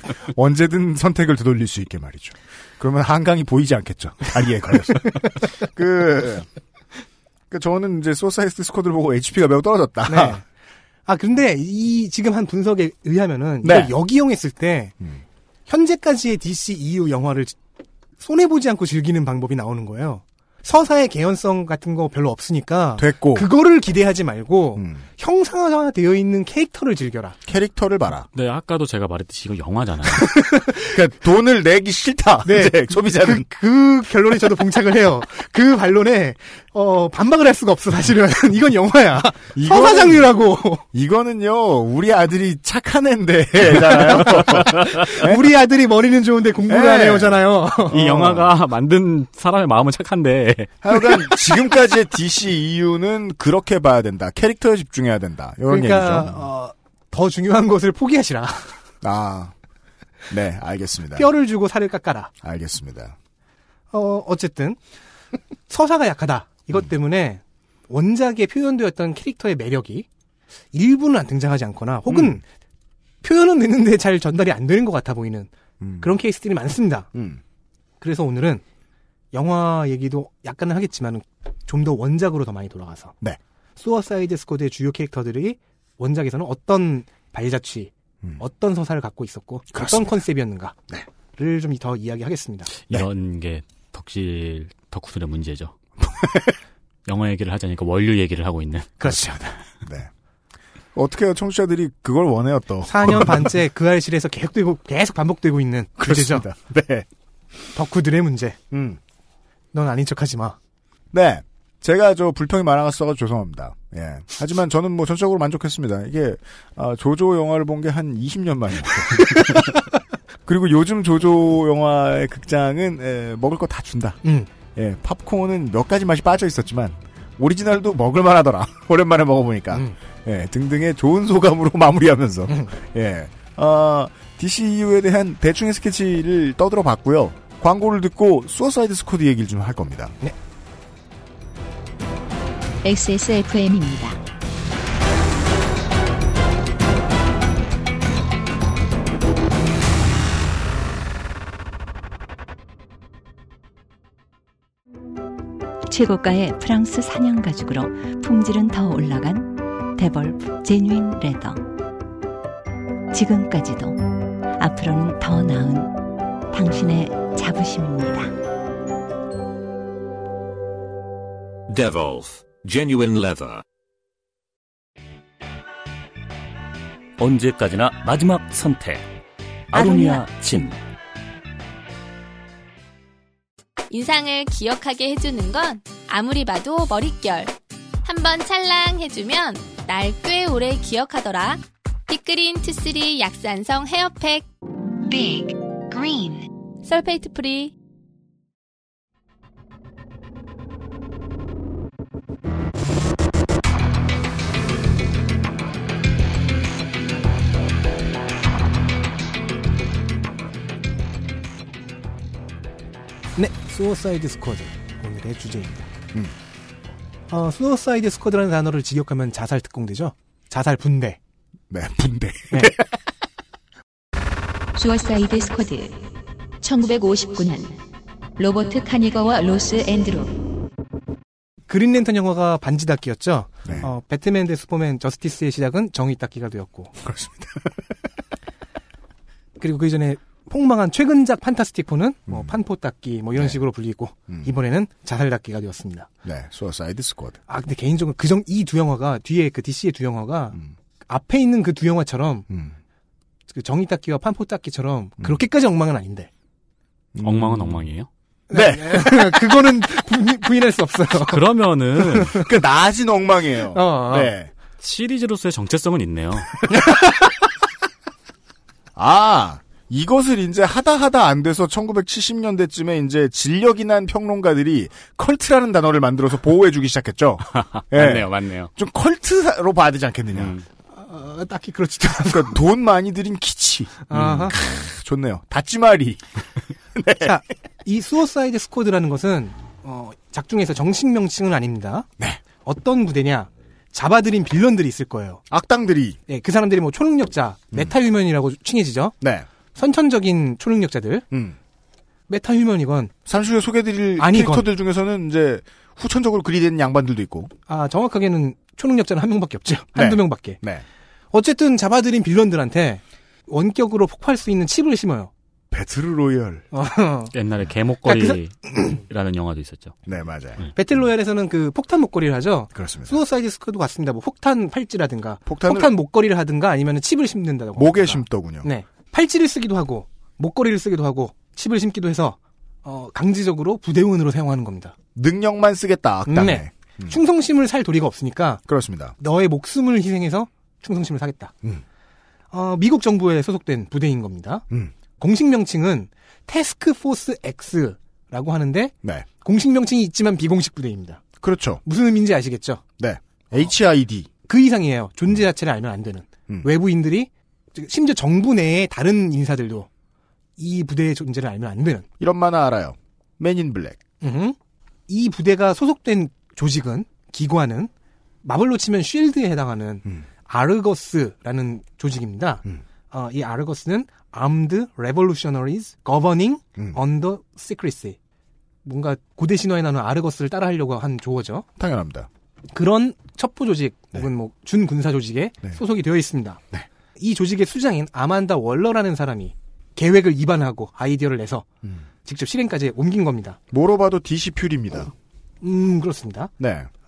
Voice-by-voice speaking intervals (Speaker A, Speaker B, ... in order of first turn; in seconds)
Speaker A: 0.3-6.5, 7.5-10.4, 13.6-13.9, 23.0-23.5, 24.8-25.0, 27.5-28.3, 30.8-33.5, 39.5-40.3, 40.9-45.4, 46.7-48.5, 50.8-56.4, 59.0-59.5, 60.3-61.3, 62.4-63.1, 72.1-72.4, 75.8-76.2, 77.1-77.4, 89.7-90.2, 96.2-96.5, 99.8-100.1, 101.0-103.5, 106.0-107.1, 108.7-109.0, 111.1-119.6, 120.5-124.2, 124.8-140.2, 221.7-223.0, 237.0-237.8, 242.3-242.6, 246.2-247.4, 252.5-252.8, 257.1-257.9, 258.5-259.6, 262.3-264.5, 268.9-280.6, 282.1-286.2, 286.9-287.3, 295.5-296.2, 299.2-299.5, 301.3-301.6, 303.3-307.5, 309.9-310.9, 315.7-316.7, 320.1-320.6, 322.8-323.2, 325.5-325.9, 327.8-328.7, 335.2-337.2, 338.7-339.1, 351.4-351.8, 353.0-354.3, 362.2-364.0, 381.8-382.3, 393.7-395.1, 396.6-396.9
Speaker B: 10.1-10.4, 11.1-14.9, 15.7-17.6, 18.2-27.4, 30.2-30.8, 32.5-40.8, 44.9-48.0, 55.7-58.8, 61.1-62.3, 63.9-64.8, 65.7-70.1, 70.7-72.4, 73.2-77.1, 78.0-78.6, 79.3-83.2, 83.8-90.8, 91.4-92.7, 99.0-99.5, 102.9-106.5, 107.8-108.6, 109.7-110.6, 119.2-119.4, 124.2-124.5, 132.5-132.7, 213.4-215.9, 217.3-221.2, 231.7-236.9, 239.6-246.1, 247.5-250.6, 251.1-252.5, 253.5-256.3, 258.5-261.4, 262.0-262.4, 263.7-264.3, 280.9-282.6, 284.1-284.6, 287.2-292.1, 292.6-295.4, 296.3-299.1, 299.8-301.2, 302.3-303.1, 304.2-304.7, 307.7-310.6, 311.3-315.3, 316.7-317.3, 318.0-318.9, 320.8-334.9, 336.3-338.6, 339.2-341.5, 342.5-344.6, 345.2-351.2, 351.9-352.8, 354.5-359.9, 360.6-362.1, 364.2-364.6, 365.1-367.9, 368.4-378.2, 378.9-381.7, 382.7-386.6, 387.2-391.7, 392.2-393.6, 395.6-396.5
Speaker C: 28.4-30.4, 47.9-50.8, 92.8-95.7, 97.1-99.1, 257.2-258.1, 261.2-262.4, 264.8-266.6, 277.6-278.7, 280.4-280.6, 317.3-320.0
Speaker D: 142.8-144.2, 224.8-226.0, 226.6-227.8, 228.4-230.4
Speaker E: 155.9-161.7, 163.1-164.0, 164.6-168.3, 179.7-180.4, 195.0-196.5
Speaker F: 171.7-173.6
Speaker G: 177.2-179.0, 179.7-180.8
Speaker H: 183.9-187.5, 188.1-194.4, 196.8-197.7